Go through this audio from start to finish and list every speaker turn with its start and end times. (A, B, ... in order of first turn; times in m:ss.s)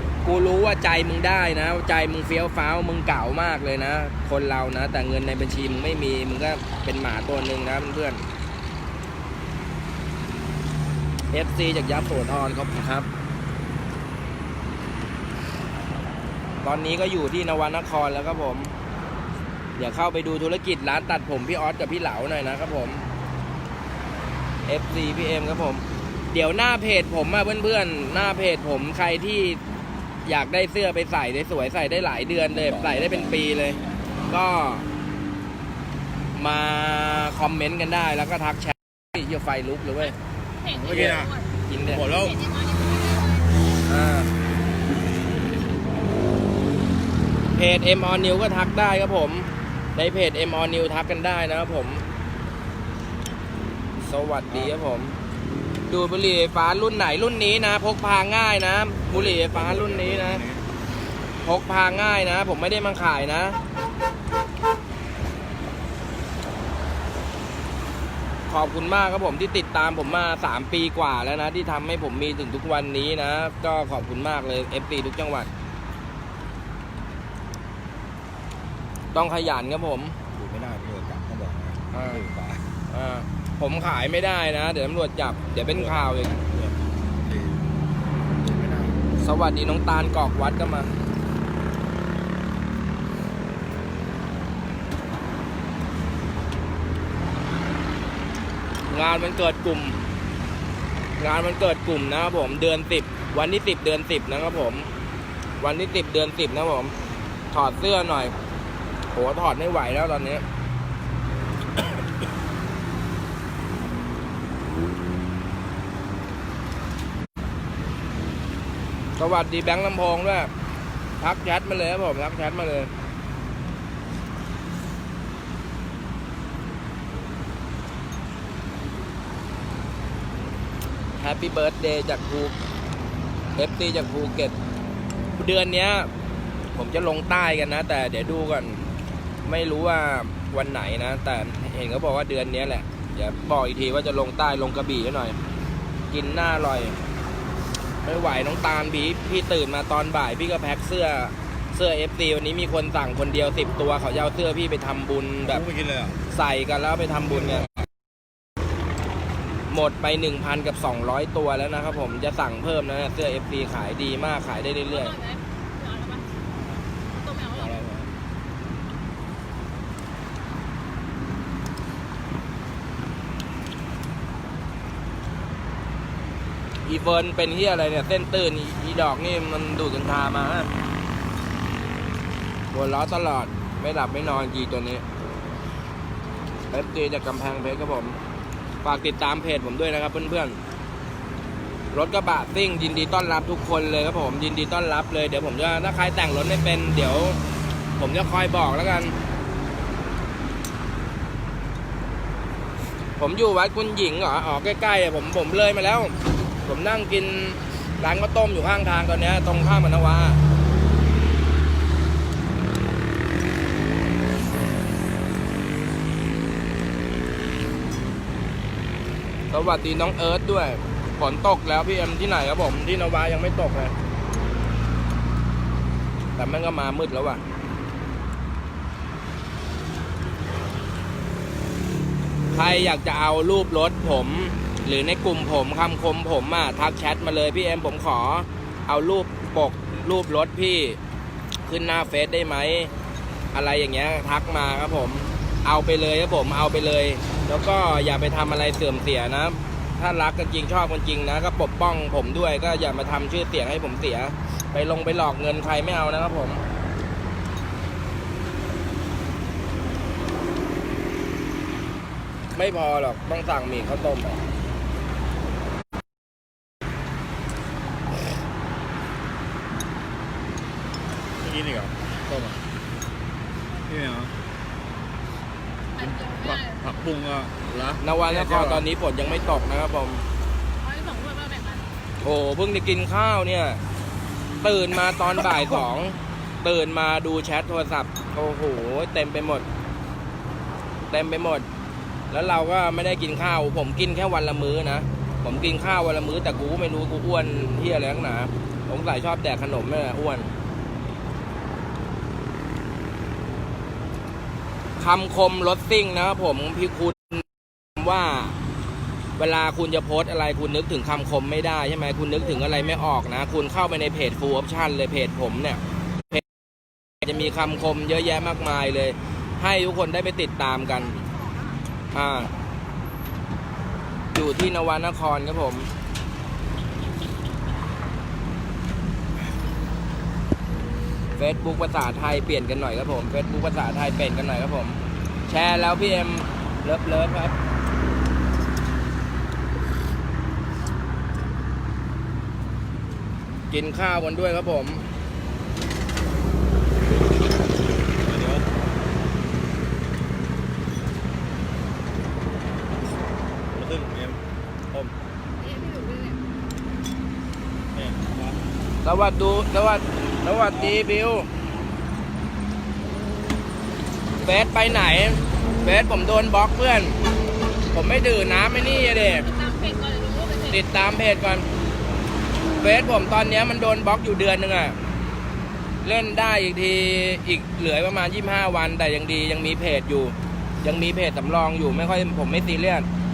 0:00.2-0:08.2 A
0:11.3-0:13.1 A
0:16.6-0:18.7 A
0:19.8-0:23.0 A
0:24.6-0:29.6 A
0:30.2-0:34.8 A
0:32.5-0:33.4 B
0:36.4-0:40.2 A
0:40.6-0:41.5 C
0:40.7-0:41.3 B
0:40.9-0:42.1 A
0:41.9-0:42.4 B
0:42.0-0:43.5 C
0:43.8-0:44.3 A
0:47.5-0:52.0 A
0:54.0-0:55.2 A
0:54.5-0:54.7 B
0:55.9-1:00.4 A
0:59.1-1:00.6 B
1:01.4-1:03.6 A
1:08.5-1:15.5 A
1:19.1-1:20.2 A
1:20.3-1:22.6 B
1:21.9-1:22.2 A
1:22.9-1:26.4 A
1:25.7-1:27.6 B
1:28.4-1:29.0 B
1:29.2-1:30.9 A
1:38.9-1:40.0 A
1:41.2-1:44.9 A
1:45.6-1:46.9 A
1:47.5-1:48.3 A
1:49.1-1:50.4 A
1:59.2-2:00.5 A
2:01.2-2:02.9 A
2:11.2-2:12.5 A
2:13.6-2:14.5 A
2:15.3-2:16.1 A
2:16.7-2:18.8 A
2:19.4-2:25.4 A
2:26.1-2:27.0 A
2:28.0-2:35.6 A
2:35.4-2:36.2 B
2:36.3-2:37.7 A
2:39.7-2:45.1 A
2:44.8-2:46.3 C
2:47.1-2:47.9 C
2:47.6-2:48.1 B
2:56.8-3:00.7 A
3:02.7-3:05.0 A
3:06.7-3:08.2 A
3:08.8-3:10.6 A
3:11.9-3:17.4 A
3:18.0-3:19.1 A
3:23.2-3:26.1 A
3:26.6-3:30.4 A
3:39.5-3:43.9 A
3:46.4-3:47.4 A
3:52.5-4:01.0 A
4:01.7-4:02.9 A
4:03.5-4:16.6 A
4:22.5-4:24.4 A
4:31.4-4:32.6 B
4:33.8-4:34.3 B
4:36.0-4:36.9 C
4:36.0-4:38.8 B
4:38.0-4:40.2 A
4:40.8-4:41.9 C
4:42.2-4:43.8 A
4:44.6-4:49.6 A
4:51.1-4:51.6 A
4:52.3-5:00.5 A
5:05.0-5:07.4 A
5:08.0-5:08.6 A
5:09.4-5:16.4 A
5:12.6-5:12.8 C
5:17.2-5:21.2 A
5:17.6-5:17.9 C
5:21.0-5:21.8 C
5:22.1-5:22.5 A
5:24.3-5:25.9 A
5:31.4-5:37.5 A
5:43.7-5:45.0 A
5:48.2-5:48.7 B
5:53.7-5:54.4 B
5:54.9-5:55.2 B
5:55.6-5:56.5 C
5:57.9-5:58.6 B
5:59.0-6:01.5 A
6:00.7-6:01.0 B
6:04.4-6:07.2 A
6:07.9-6:09.5 A
6:08.8-6:10.9 C
6:10.7-6:11.6 A
6:12.8-6:14.9 A
6:16.0-6:23.1 A